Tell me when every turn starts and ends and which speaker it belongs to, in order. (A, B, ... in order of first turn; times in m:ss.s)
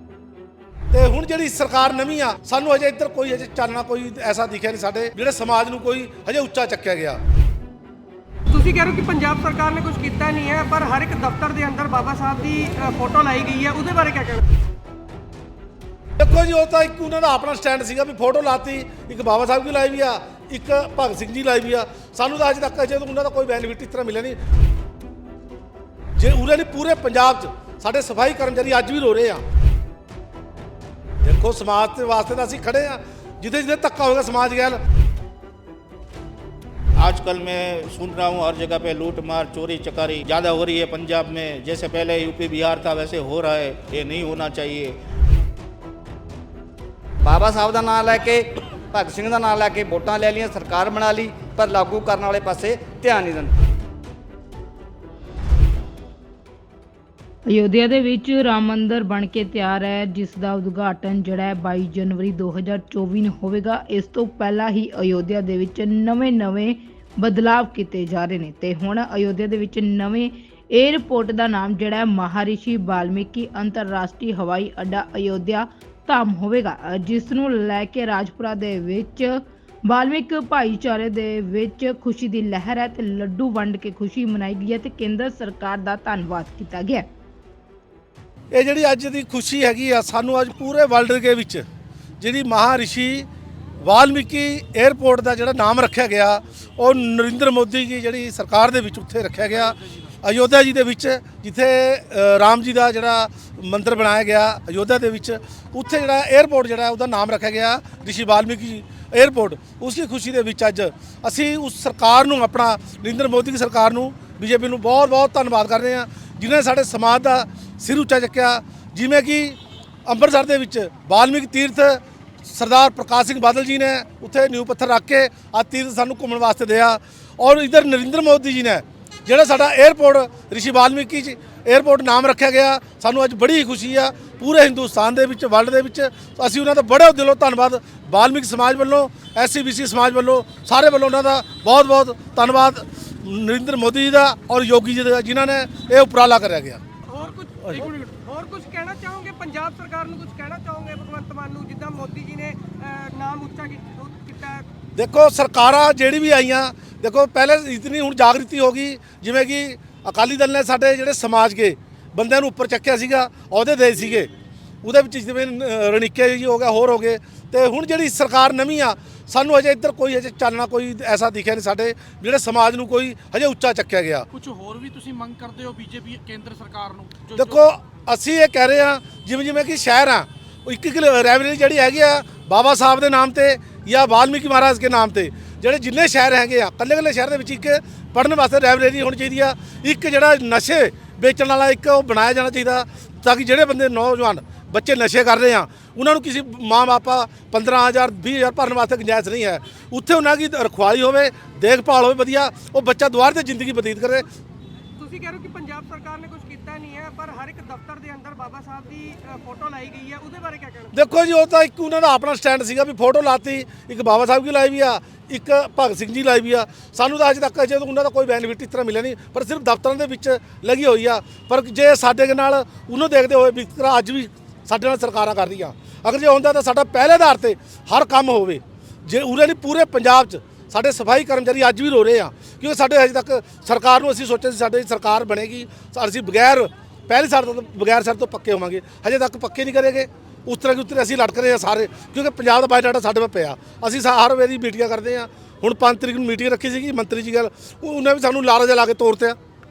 0:00.9-0:07.2 A
0:08.5-0:14.4 B
0:16.2-0:24.4 A
0:26.2-0:29.4 A
0:31.2-0:34.8 A
0:37.0-0:45.0 C
0:47.2-0:53.5 D
0:57.5-1:27.1 E
1:28.5-1:31.6 A
1:32.2-1:33.3 A
1:33.8-2:26.8 A
2:27.0-2:34.6 B
2:27.6-2:27.9 A
2:35.0-2:44.3 A
2:44.8-2:54.3 A
2:54.3-2:57.5 F
2:57.3-3:24.3 A
3:25.0-3:31.0 B
3:30.9-4:09.4 A